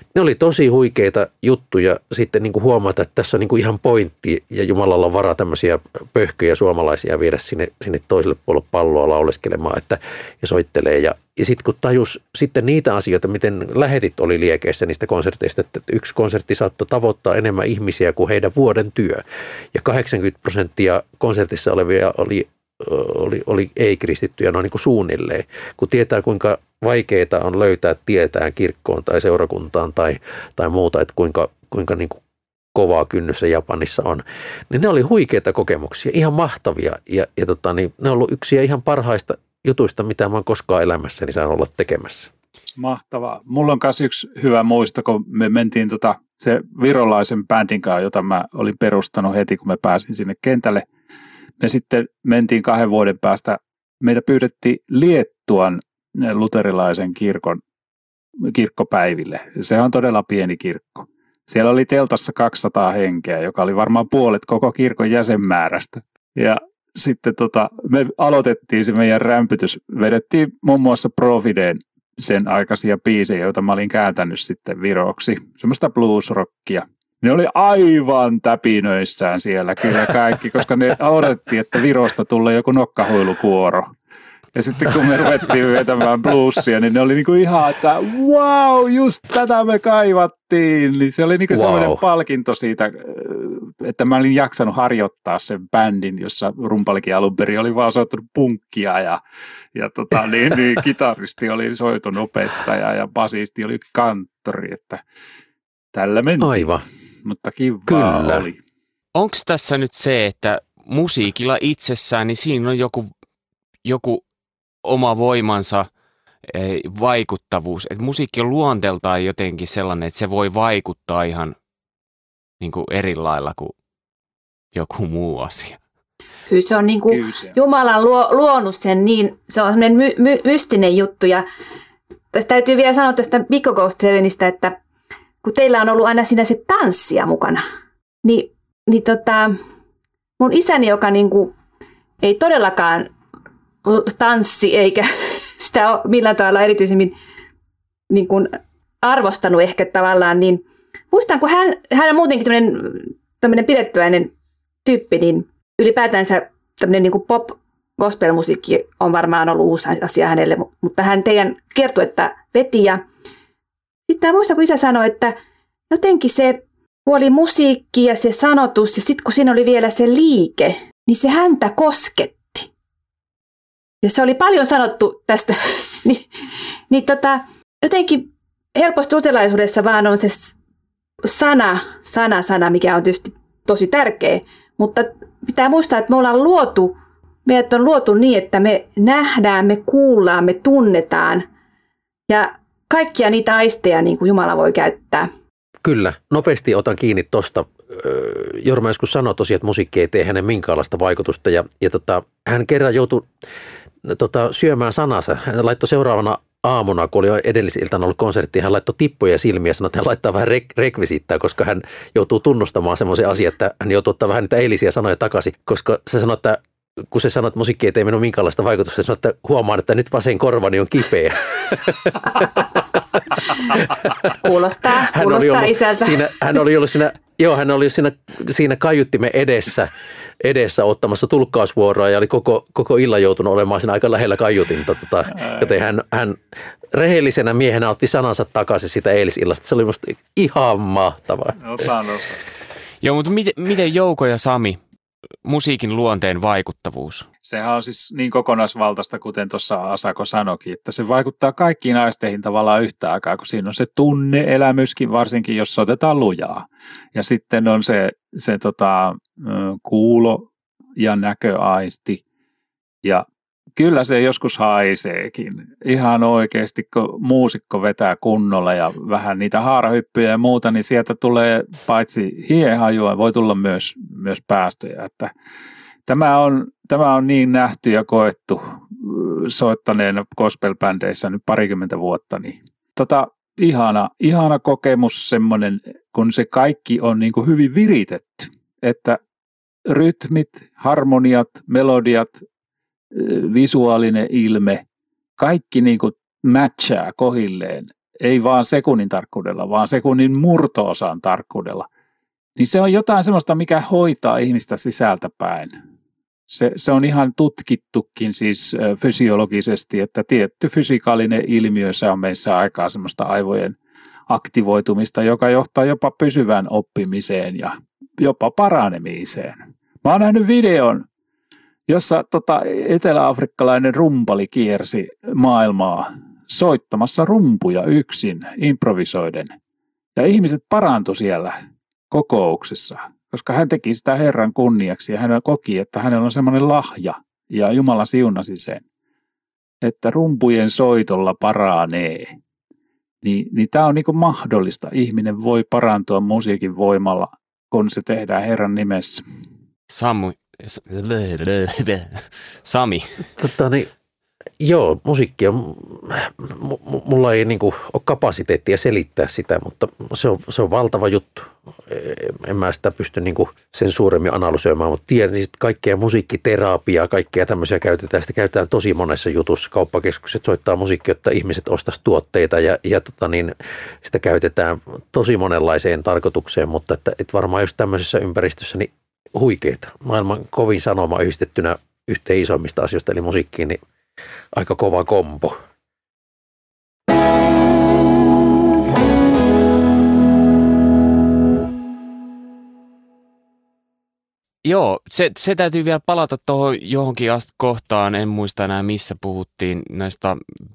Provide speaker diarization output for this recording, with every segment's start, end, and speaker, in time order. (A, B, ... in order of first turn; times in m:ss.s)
0:00.1-0:32.2 A
0:32.8-0:42.3 A
0:42.8-0:50.8 B
0:51.6-0:57.6 B
0:58.5-1:23.9 B
1:24.6-1:39.2 B
1:31.5-1:32.0 A
1:39.8-1:45.0 B
1:45.9-1:46.7 B
1:46.4-1:46.8 A
1:47.2-1:48.6 B
1:47.9-1:48.5 A
1:49.2-1:53.1 C
1:53.8-1:54.2 C
1:54.8-1:55.9 C
1:56.5-2:01.6 C
2:02.6-2:03.8 C
2:04.7-2:05.8 C
2:06.5-2:11.4 D
2:07.1-2:07.6 B
2:12.3-2:14.8 D
2:15.4-2:17.6 D
2:18.2-2:19.5 D
2:20.4-2:21.5 D
2:22.2-2:23.1 D
2:23.8-2:27.1 D
2:28.1-2:34.3 D
2:34.8-2:43.0 D
2:44.1-2:45.4 D
2:45.9-2:52.7 D
2:54.0-2:56.3 D
2:56.9-3:00.6 D
3:01.2-3:11.5 D
3:12.3-3:15.3 D
3:15.8-3:23.3 A
3:24.0-3:43.2 A
3:43.8-3:44.4 A
3:44.4-3:46.6 D
3:45.1-3:56.4 A
3:55.4-3:55.8 B
3:56.9-4:01.6 A
4:01.6-4:02.4 B
4:03.0-4:04.8 C
4:05.4-4:07.3 C
4:07.4-4:22.2 B
4:23.8-4:35.3 B
4:36.1-4:49.2 B
4:49.9-4:52.4 B
4:53.1-4:54.8 B
4:55.4-5:01.9 B
5:02.6-5:05.7 B
5:06.5-5:13.8 B
5:14.3-5:21.0 B
5:21.9-5:29.5 B
5:30.2-5:31.6 B
5:32.1-5:38.8 B
5:39.8-5:42.4 B
5:43.2-5:49.2 B
5:49.9-5:53.2 C
5:53.4-5:53.9 A
5:54.6-6:23.8 A
6:24.5-6:25.6 A
6:34.6-6:40.4 C